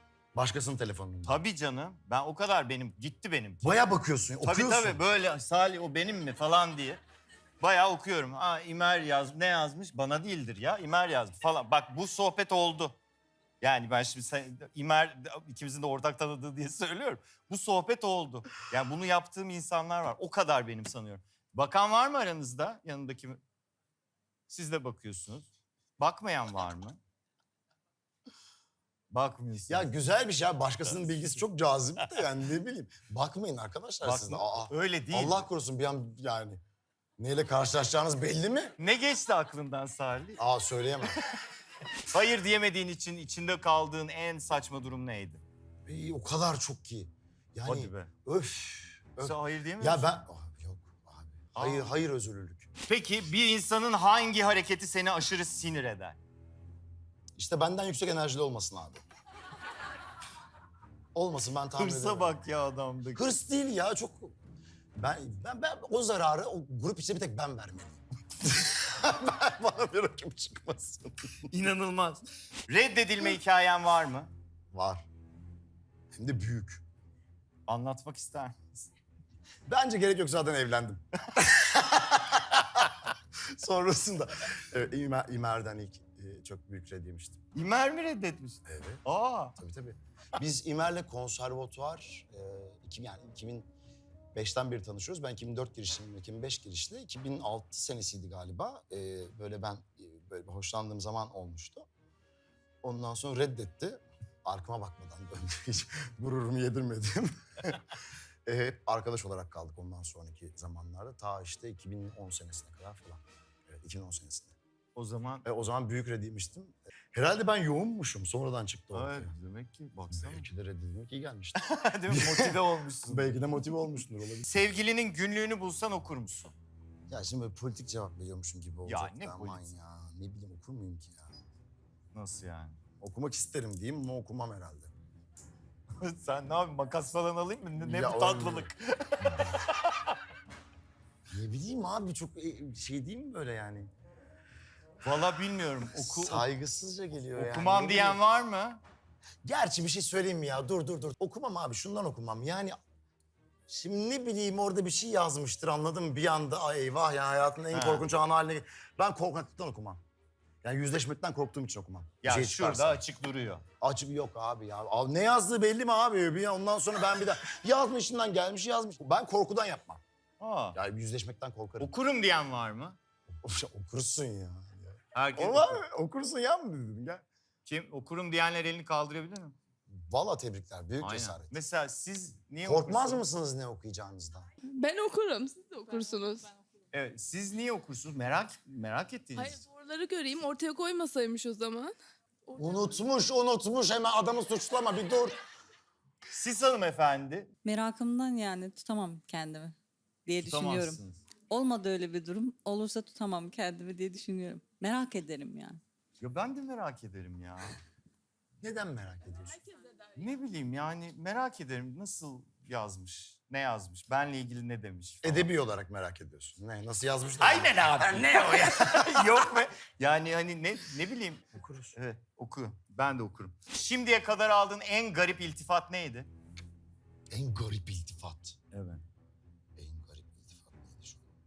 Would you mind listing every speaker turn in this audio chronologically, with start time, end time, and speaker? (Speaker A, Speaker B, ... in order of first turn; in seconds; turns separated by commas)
Speaker A: 0.3-1.4, Speaker B: 1.2-3.8, Speaker A: 3.6-5.0, Speaker B: 4.4-7.0, Speaker B: 7.6-13.0, Speaker B: 13.6-23.4, Speaker B: 24.5-27.0, Speaker B: 29.1-29.9, Speaker A: 29.7-36.6, Speaker B: 30.9-31.4, Speaker B: 34.0-35.5, Speaker A: 37.2-38.8, Speaker B: 38.8-40.4, Speaker A: 40.4-41.2, Speaker B: 42.0-45.4, Speaker A: 45.9-52.7, Speaker B: 47.7-48.1, Speaker B: 49.2-50.1, Speaker B: 51.6-52.0, Speaker B: 52.9-56.2, Speaker A: 57.4-59.0, Speaker A: 61.1-62.4, Speaker B: 61.8-63.3, Speaker A: 63.2-64.3, Speaker A: 65.0-71.5, Speaker B: 71.5-74.3, Speaker A: 74.7-75.1, Speaker A: 76.1-76.8, Speaker B: 77.7-78.9, Speaker A: 79.7-87.4, Speaker B: 87.5-89.6, Speaker A: 88.7-89.0, Speaker A: 89.6-93.7, Speaker A: 94.3-101.9, Speaker A: 102.8-114.5, Speaker B: 115.0-115.5, Speaker A: 115.5-119.3, Speaker B: 118.9-120.5, Speaker A: 120.2-124.5, Speaker B: 121.6-123.7, Speaker B: 124.4-126.5, Speaker A: 127.1-131.3, Speaker B: 128.8-129.7, Speaker B: 132.1-132.8, Speaker A: 133.0-134.9, Speaker B: 136.0-140.1, Speaker A: 137.8-138.7, Speaker A: 139.2-139.6, Speaker A: 141.3-143.9, Speaker B: 145.0-146.5, Speaker A: 145.9-148.2, Speaker B: 147.3-148.8, Speaker A: 149.4-152.8, Speaker A: 153.7-160.0, Speaker B: 157.7-158.1, Speaker A: 160.6-163.0, Speaker B: 162.2-163.6, Speaker A: 163.8-170.0, Speaker B: 170.4-170.8, Speaker A: 170.7-171.9, Speaker B: 171.8-173.0, Speaker A: 173.4-177.2, Speaker B: 175.2-175.8, Speaker B: 177.7-179.6, Speaker A: 179.9-181.6, Speaker B: 181.0-183.2, Speaker A: 182.6-184.5, Speaker C: 184.7-186.5, Speaker B: 186.9-189.6, Speaker C: 189.4-191.9, Speaker A: 192.6-195.4, Speaker B: 196.3-197.5, Speaker D: 197.7-205.8, Speaker B: 200.4-201.2, Speaker B: 206.2-207.8, Speaker A: 208.6-209.6, Speaker B: 210.2-215.5, Speaker A: 215.2-218.2, Speaker B: 217.4-221.4, Speaker A: 221.5-222.0, Speaker B: 221.9-226.3, Speaker A: 227.3-228.6, Speaker B: 228.7-229.0, Speaker A: 229.8-231.2